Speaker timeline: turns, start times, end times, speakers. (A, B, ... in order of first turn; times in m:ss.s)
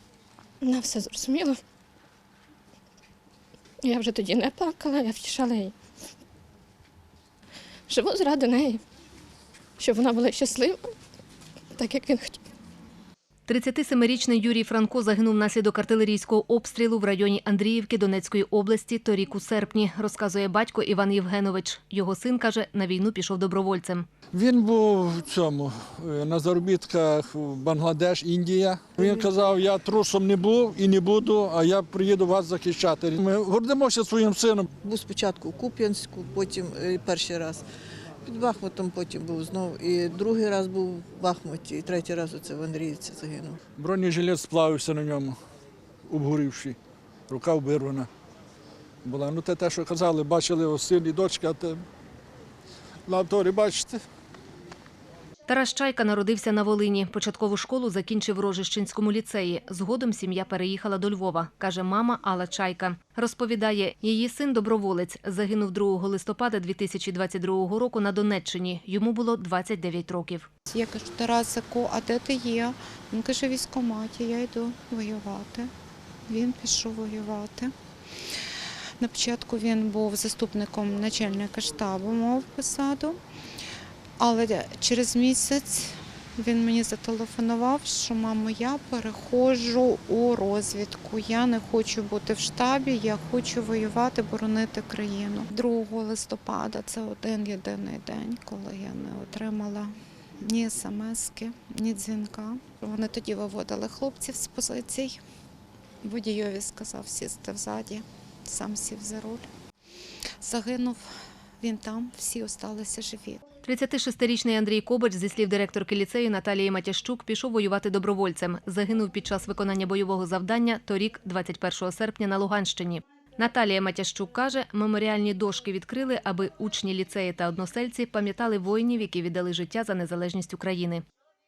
0:00.6-0:01.6 A
0:03.8-0:05.7 A
0:07.9-0:08.8 A
0:09.8-0:10.8 A
0:11.8-0:12.4 A
0:13.5-0:24.1 B
0:24.3-0:34.7 C
0:34.8-0:37.6 D
0:38.2-0:43.6 D
0:43.8-0:45.4 C
0:46.1-0:46.8 C
0:47.3-0:48.1 C
0:49.0-0:51.8 C
0:53.1-0:54.0 C
0:55.5-1:10.5 B
1:10.7-1:15.7 E
1:16.3-1:17.7 E
1:19.0-1:23.2 E
1:24.2-1:45.2 E
1:46.0-1:49.5 E
1:50.4-1:51.1 E
1:51.6-1:53.4 E
1:53.6-2:11.0 B